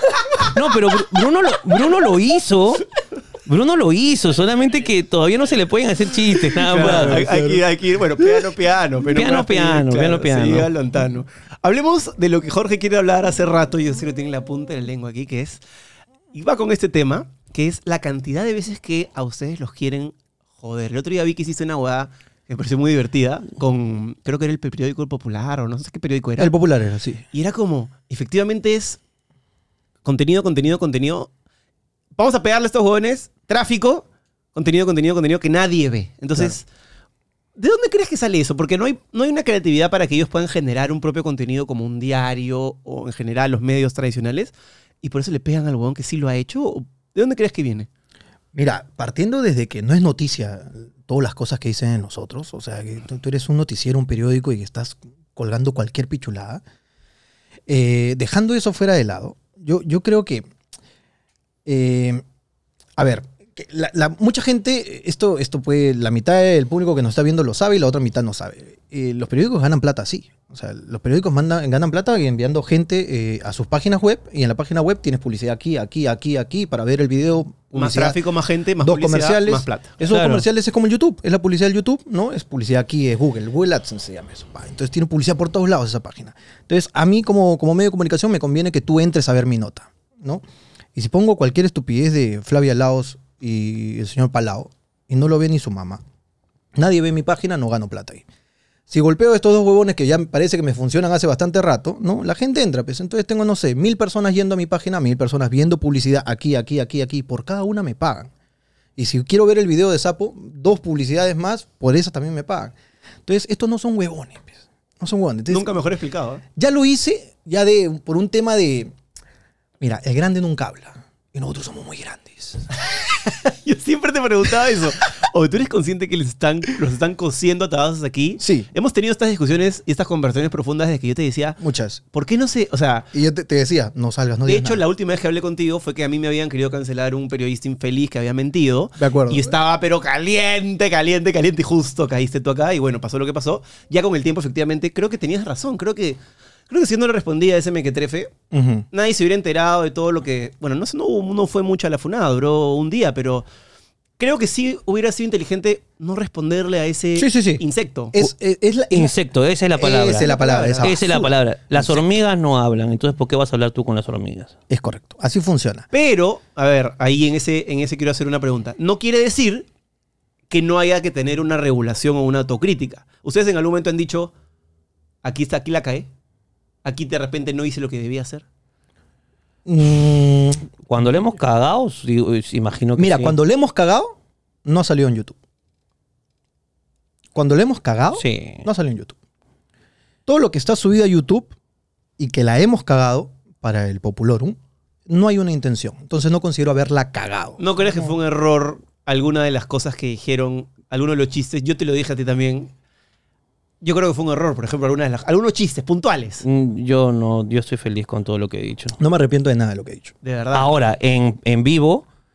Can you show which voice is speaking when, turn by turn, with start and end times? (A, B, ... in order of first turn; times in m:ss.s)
0:00.4-0:02.8 A
0:03.4-0:07.3 A
0:06.6-0:15.6 B
0:06.7-0:07.6 C
0:09.1-0:10.7 A
0:16.3-0:26.5 B
0:26.4-0:27.2 C
0:27.3-0:29.0 B
0:30.0-0:31.3 B
0:32.2-0:36.6 B
0:37.6-0:47.9 B
0:48.5-0:56.6 C
0:57.7-1:00.5 C
1:01.6-1:02.2 C
1:03.0-1:18.2 C
1:17.7-1:20.0 B
1:18.8-1:30.4 C
1:20.1-1:20.4 A
1:30.9-1:36.0 C
1:36.7-1:38.2 C
1:38.9-1:48.3 C
1:49.0-1:52.7 C
1:53.2-1:55.7 C
1:55.5-1:56.4 B
1:56.6-1:58.9 C
1:59.8-2:02.7 C
2:03.2-2:11.6 B
2:08.4-2:08.7 C
2:11.6-2:12.0 C
2:12.1-2:13.1 B
2:13.1-2:14.8 C
2:14.4-2:28.3 B
2:19.0-2:19.5 C
2:28.5-2:28.8 C
2:28.9-2:33.4 B
2:34.2-2:38.1 B
2:37.2-2:39.2 C
2:38.9-2:40.3 A
2:39.8-2:42.0 C
2:40.1-2:41.0 B
2:40.8-2:44.5 A
2:44.7-2:45.9 C
2:45.9-2:49.7 B
2:50.5-2:54.3 B
2:55.2-2:56.1 B
2:56.8-2:58.4 B
2:59.6-3:00.6 C
3:00.8-3:03.4 A
3:03.0-3:05.3 C
3:07.3-3:09.1 C
3:08.2-3:08.6 A
3:10.2-3:11.5 C
3:12.2-3:18.1 C
3:17.6-3:22.7 B
3:23.8-3:26.4 B
3:26.4-3:29.0 A
3:29.0-3:30.1 C
3:30.2-3:30.7 B
3:30.5-3:32.0 A